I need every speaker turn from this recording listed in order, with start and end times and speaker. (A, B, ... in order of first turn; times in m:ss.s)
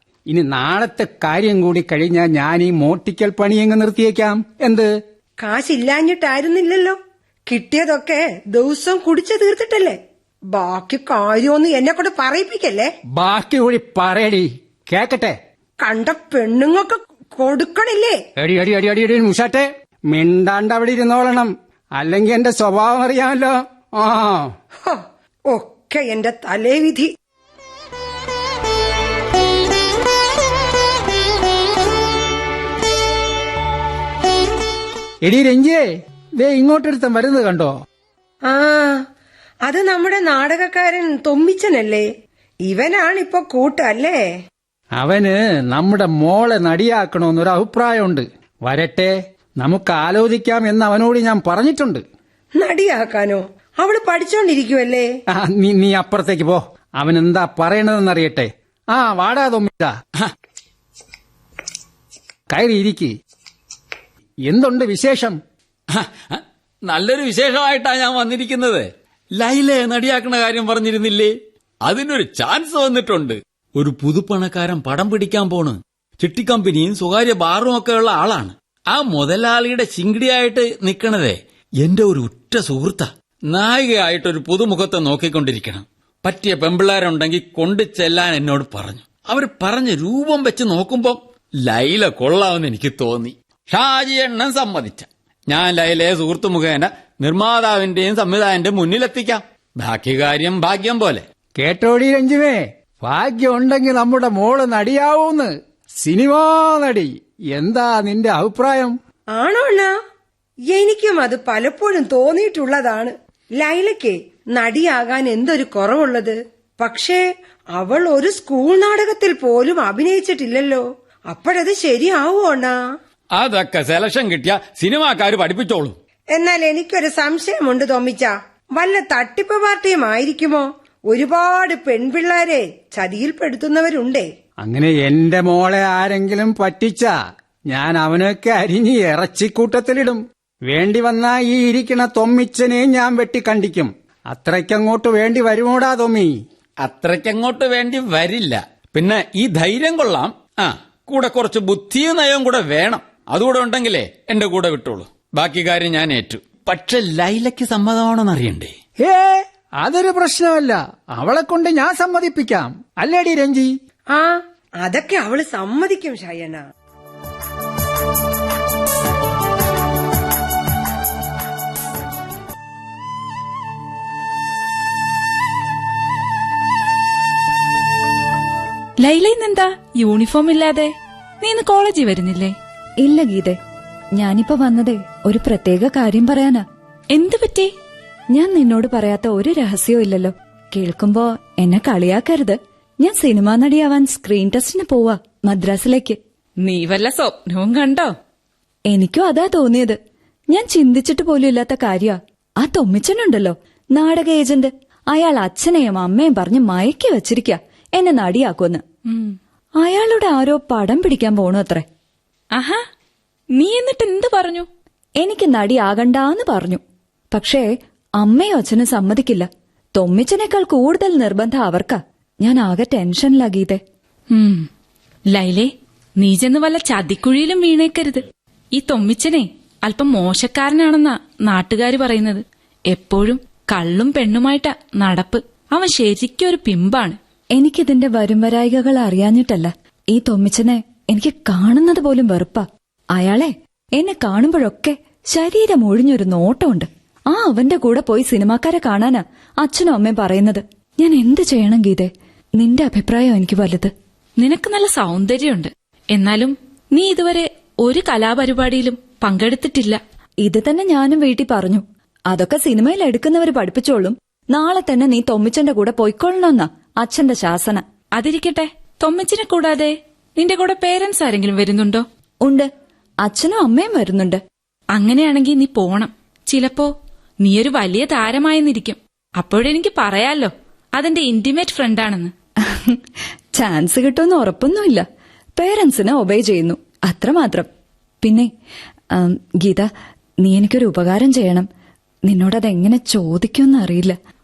0:00.3-0:04.9 A
0:05.4-0:10.0 B
0:10.5-0:12.9 B
0:13.2-0:15.4 A
0:15.8-0:18.2 B
0:18.4-0:24.5 A
0:24.8-0:27.1 B
0:35.2-0:35.8 A
0:36.4-0:37.7 A
0:38.4-0:39.0 B
0:39.6-0:42.1 B
0:42.6-0:44.2 B
0:45.0-0:52.0 A
0:52.6-0:55.1 B
0:55.3-1:00.0 A
1:02.5-1:03.1 A
1:04.5-1:05.4 A
1:05.9-1:11.3 C
1:11.8-1:41.2 C
1:41.6-1:49.0 A
1:49.3-1:49.9 B
1:50.7-1:57.2 B
1:57.7-2:02.8 B
2:03.3-2:06.0 C
2:06.3-2:14.3 B
2:14.6-2:17.1 A
2:17.7-2:26.3 A
2:26.8-2:38.7 C
2:39.0-2:43.7 A
2:44.1-2:46.6 B
2:59.0-3:02.5 D
3:03.0-3:03.6 E
3:04.2-3:06.6 E
3:07.1-3:07.7 D
3:08.3-3:16.2 E
3:16.6-3:18.1 D
3:18.9-3:20.0 E
3:20.5-3:28.8 E
3:29.1-3:29.4 D
3:29.8-3:31.8 E
3:32.5-3:32.8 D
3:33.5-3:34.7 D
3:35.2-3:43.8 E
3:44.3-3:44.7 D
3:45.3-3:57.2 D
3:57.6-4:13.9 E
4:14.4-4:20.0 D
4:20.4-4:27.8 E
4:28.2-4:32.0 D
4:32.4-4:32.7 E
4:33.2-4:34.4 E
4:34.9-4:42.3 D
4:42.6-4:43.0 E
4:43.6-4:45.0 E
4:45.6-4:47.7 E
4:48.2-4:48.5 E
4:49.1-4:49.9 E
4:50.4-4:51.7 E
4:52.3-4:54.2 E